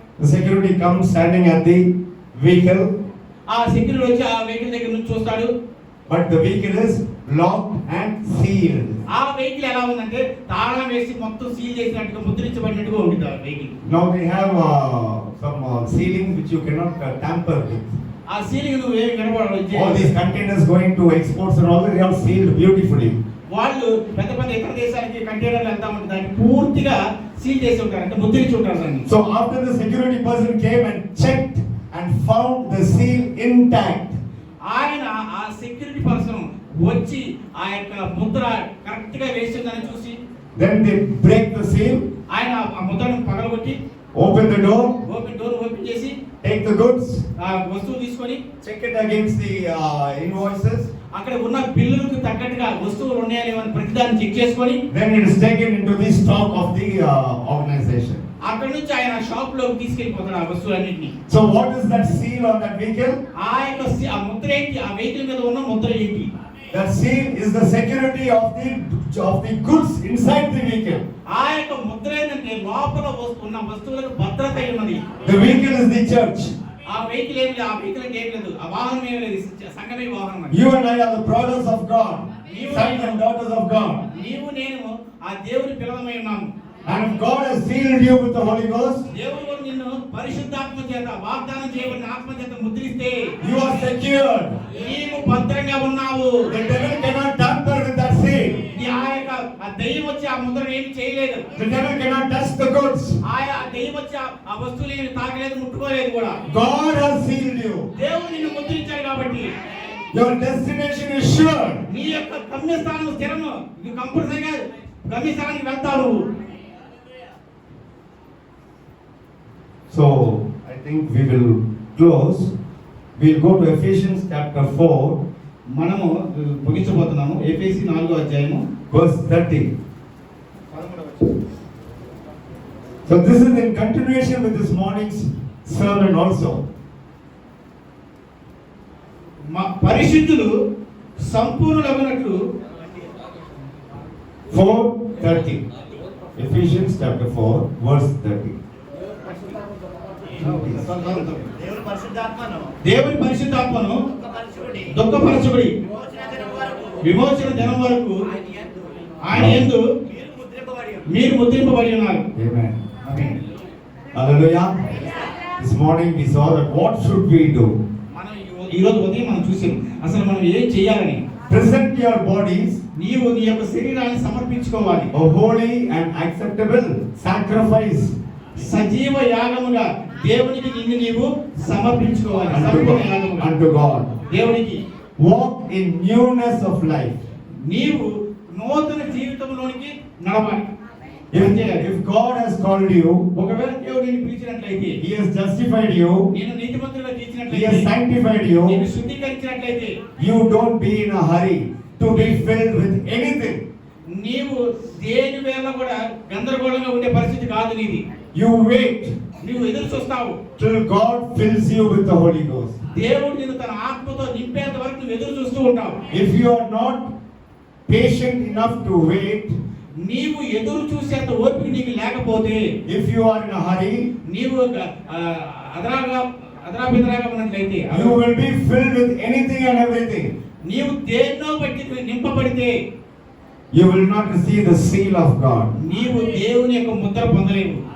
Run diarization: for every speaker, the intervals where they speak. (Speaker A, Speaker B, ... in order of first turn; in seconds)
Speaker A: 0.2-2.9, 6.1-9.0, 13.8-18.0, 19.7-23.1, 29.1-34.2, 40.5-42.0, 44.1-45.0, 46.4-47.2, 48.6-50.9, 54.9-58.2, 61.3-63.2, 66.7-71.0, 75.2-76.5, 80.5-84.0, 86.8-89.0, 93.4-94.6, 96.5-98.6, 101.5-103.2, 106.5-107.9, 110.1-111.8, 119.9-122.5, 123.2-125.2, 128.9-129.7, 133.1-136.6, 144.5-145.6, 146.4-148.6, 150.4-151.1, 159.3-159.7, 162.3-162.8, 164.1-164.8, 165.6-167.7, 171.5-172.8, 175.1-178.1, 182.5-184.2, 185.2-187.2, 191.3-193.3, 195.0-196.3, 197.5-198.8, 200.2-203.6, 208.3-209.2, 210.6-212.8, 216.1-217.1, 217.9-219.6, 222.8-224.1, 227.9-230.3, 233.7-235.7
Speaker B: 3.5-5.5, 9.1-13.7, 18.3-20.1, 23.5-29.1, 34.6-40.2, 42.3-43.8, 45.0-46.2, 47.4-48.4, 51.1-54.8, 58.4-61.1, 63.3-66.3, 71.3-75.0, 76.8-80.6, 82.5-83.2, 84.1-86.5, 89.1-93.3, 94.7-96.5, 98.7-101.4, 103.2-106.4, 107.9-109.5, 111.9-116.2, 125.7-128.6, 139.5-140.5, 141.2-142.4, 152.8-154.0, 154.8-155.7, 157.0-158.2, 159.2-159.8, 161.1-162.3, 163.0-163.4, 168.1-171.2, 172.9-175.1, 178.6-183.5, 184.3-184.8, 187.6-190.7, 191.3-191.9, 193.3-195.0, 196.3-197.9, 198.7-200.0, 202.1-202.4, 204.2-208.0, 209.4-210.4, 212.9-216.0, 220.0-222.7, 224.3-228.2, 230.7-232.8, 235.7-237.8
Speaker C: 130.8-131.3, 151.0-152.7, 154.4-154.8, 156.1-156.9, 160.3-160.9